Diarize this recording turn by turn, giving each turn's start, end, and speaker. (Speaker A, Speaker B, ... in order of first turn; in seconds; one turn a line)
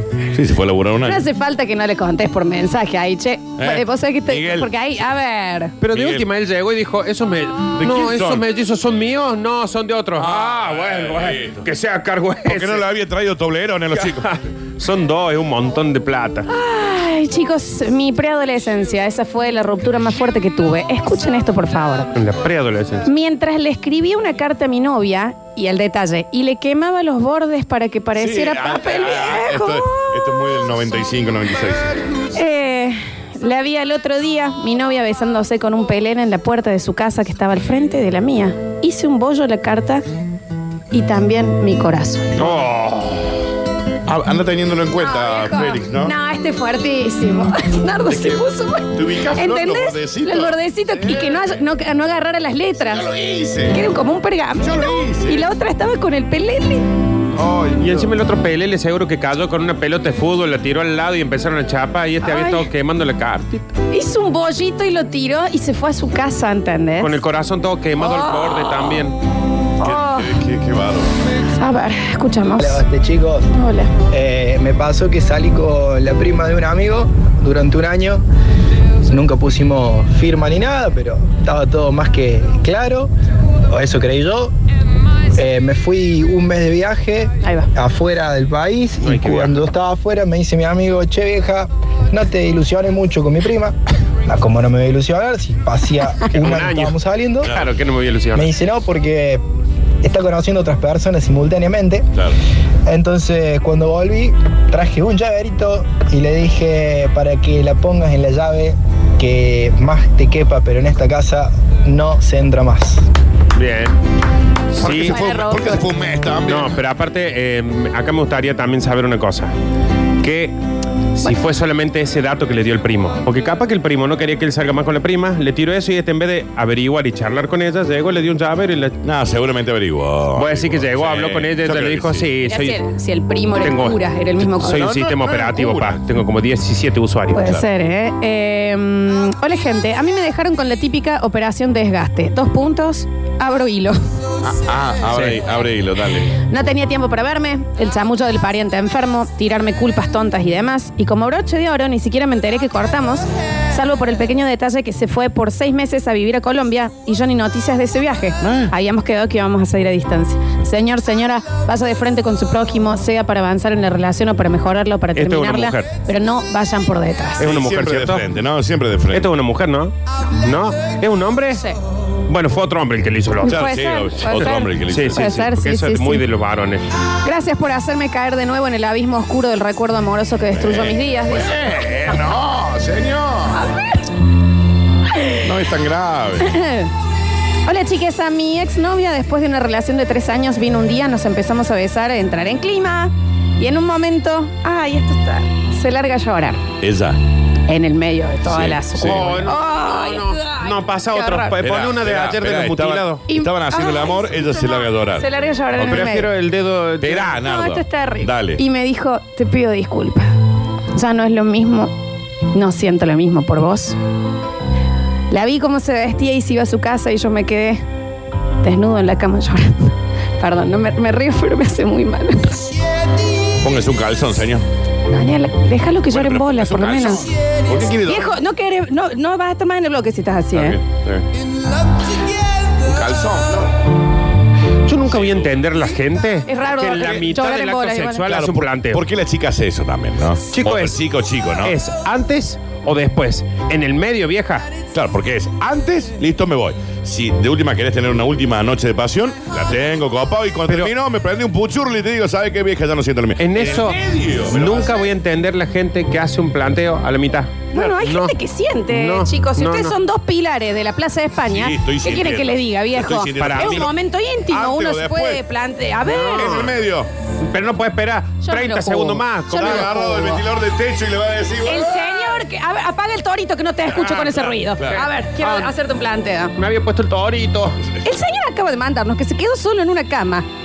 Speaker A: 0.3-1.2
Speaker B: 1.0-5.7
Speaker A: 3.6-4.7
Speaker C: 5.8-12.8
Speaker A: 5.9-6.2
Speaker A: 7.8-8.4
Speaker A: 10.2-11.7
Speaker A: 12.4-14.3
Speaker C: 13.9-16.5
Speaker B: 16.5-22.1
Speaker C: 22.1-23.1
Speaker B: 23.0-30.1
Speaker A: 28.2-31.9
Speaker B: 32.3-40.0
Speaker B: 40.9-42.4
Speaker A: 42.4-42.6
Speaker C: 42.4-43.3
Speaker A: 44.0-46.1
Speaker B: 45.0-53.0
Speaker A: 48.1-48.4
Speaker A: 48.9-51.5
Speaker A: 52.8-53.8
Speaker B: 53.7-56.9
Speaker A: 54.6-55.5
Speaker A: 57.3-58.1
Speaker C: 57.8-63.6
Speaker B: 62.2-62.7
Speaker B: 63.9-67.1
Speaker C: 67.0-69.1
Speaker B: 68.0-69.0
Speaker B: 69.8-70.3
Speaker A: 69.8-71.1
Speaker B: 71.5-72.8
Speaker D: 72.6-73.5
Speaker B: 73.5-73.9
Speaker D: 74.1-78.2
Speaker D: 79.0-83.1
Speaker D: 83.7-84.5
Speaker D: 85.3-93.7
Speaker B: 87.4-87.7
Speaker C: 89.0-89.5
Speaker D: 94.2-97.5
Speaker C: 96.3-98.5
Speaker A: 97.4-97.7
Speaker D: 98.3-99.4
Speaker D: 100.0-102.1
Speaker D: 102.8-113.0
Speaker C: 113.5-113.9
Speaker C: 114.7-115.2
Speaker A: 114.8-116.8
Speaker B: 114.9-115.8
Speaker C: 116.4-119.5
Speaker C: 120.2-120.5
Speaker C: 121.2-128.9
Speaker A: 129.0-132.2
Speaker C: 130.3-132.8
Speaker B: 132.4-134.9
Speaker C: 133.6-137.6
Speaker A: 134.6-136.0
Speaker B: 137.3-144.0
Speaker A: 144.4-146.3
Speaker C: 145.1-145.4
Speaker B: 146.5-167.4
Speaker A: 158.4-158.7
Speaker C: 165.2-165.9
Speaker C: 167.4-168.2
Speaker A: 167.4-169.3
Speaker C: 169.1-171.6
Speaker C: 172.3-173.7
Speaker A: 173.4-175.4
Speaker B: 173.4-176.2
Speaker C: 174.2-176.8
Speaker B: 177.2-181.5
Speaker A: 180.5-183.6
Speaker B: 183.5-184.0
Speaker B: 185.1-185.4
Speaker A: 185.4-186.6
Speaker B: 186.4-186.9
Speaker B: 187.7-196.6
Speaker A: 196.8-197.2
Speaker B: 197.7-201.6
Speaker A: 198.4-199.4
Speaker C: 199.0-203.2
Speaker A: 201.6-206.1
Speaker B: 203.3-206.3
Speaker C: 205.8-207.4
Speaker A: 207.0-208.6
Speaker B: 207.4-210.3
Speaker B: 210.9-211.9
Speaker B: 212.5-213.9
Speaker B: 215.3-217.8
Speaker B: 218.6-222.7
Speaker A: 223.6-224.6
Speaker B: 225.1-227.2
Speaker A: 226.1-228.3
Speaker B: 228.1-230.8
Speaker A: 230.5-231.2
Speaker A: 232.8-233.7
Speaker C: 234.9-239.0
Speaker A: 235.1-235.6
Speaker B: 236.5-238.2
Speaker A: 238.2-241.8
Speaker C: 240.5-241.0
Speaker C: 241.6-244.7
Speaker A: 244.9-255.1
Speaker C: 253.4-258.3
Speaker B: 257.7-266.6
Speaker C: 258.9-259.9
Speaker A: 261.5-263.9
Speaker C: 263.4-263.9
Speaker A: 264.5-265.4
Speaker C: 266.1-266.7
Speaker A: 266.3-267.1
Speaker C: 267.4-270.3
Speaker B: 268.4-270.4
Speaker A: 269.5-272.4
Speaker B: 271.6-276.5
Speaker A: 274.4-275.0
Speaker C: 274.9-275.7
Speaker C: 276.6-277.8
Speaker B: 278.0-280.4